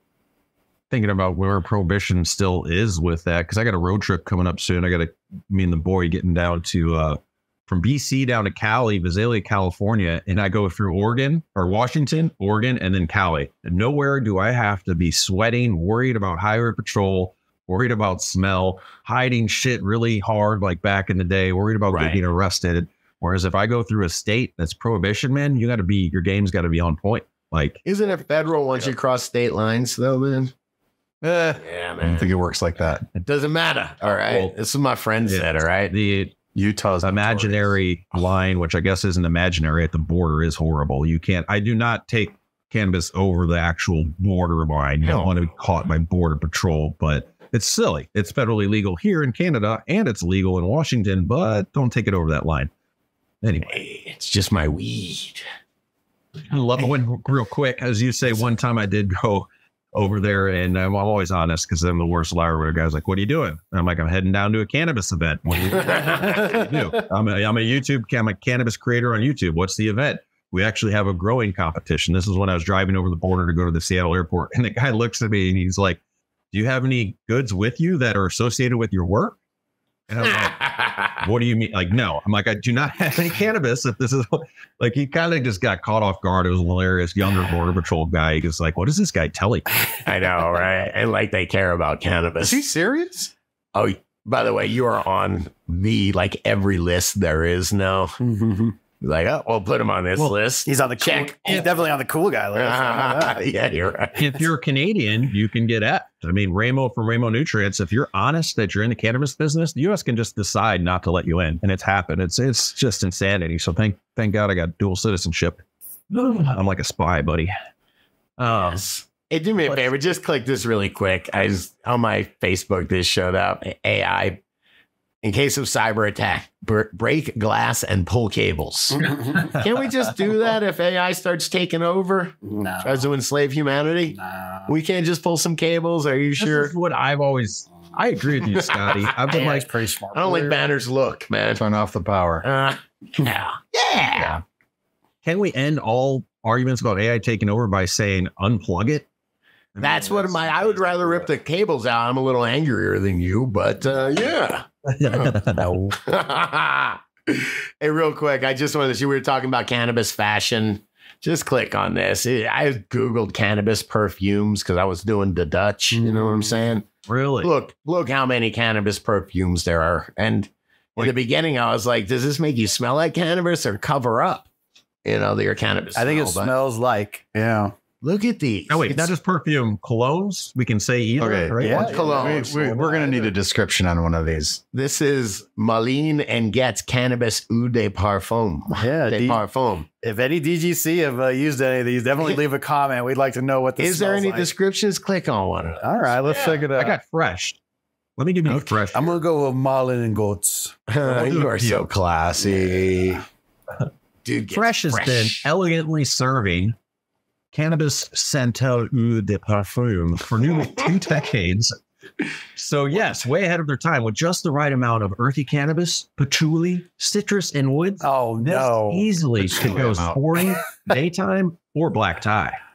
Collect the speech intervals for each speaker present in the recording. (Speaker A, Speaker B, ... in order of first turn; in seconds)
Speaker A: 0.9-27.8, 34.0-34.5, 35.2-36.3, 37.0-52.7, 53.4-53.8, 56.5-76.0, 76.5-79.4, 80.1-89.7, 104.2-117.5, 118.4-118.8, 136.4-139.7, 145.2-149.1, 149.7-151.3, 154.8-155.7, 167.1-167.5, 178.7-182.1, 196.8-197.6, 198.2-199.2, 201.0-201.9, 204.5-206.8, 207.5-211.8, 212.6-222.6
Speaker B: 21.9-22.2, 27.8-30.5, 31.6-32.3, 33.2-35.9, 37.2-37.7, 45.0-45.4, 53.7-55.4, 65.8-66.4, 80.2-81.2, 90.0-92.6, 93.7-98.2, 99.0-101.8, 102.5-104.4, 118.5-124.4, 125.2-136.7, 138.4-139.6, 140.1-141.6, 142.4-144.4, 149.8-155.3, 156.0-166.8, 167.4-174.5, 175.0-176.5, 178.0-179.1, 181.8-182.7, 184.7-189.9, 193.8-196.6, 198.5-198.8, 200.9-203.2, 204.2-205.5
Speaker C: 31.2-33.0, 36.5-37.3, 92.4-93.3, 141.6-142.4, 181.2-184.6, 219.6-220.2
Speaker D: 98.2-98.7, 100.7-103.4, 129.0-129.4, 132.4-133.0, 134.1-134.7, 139.3-140.6, 155.5-156.0, 165.9-166.7, 175.9-177.7, 181.6-183.3, 188.8-189.4, 190.0-194.5, 195.8-196.9, 198.9-200.8, 218.0-219.1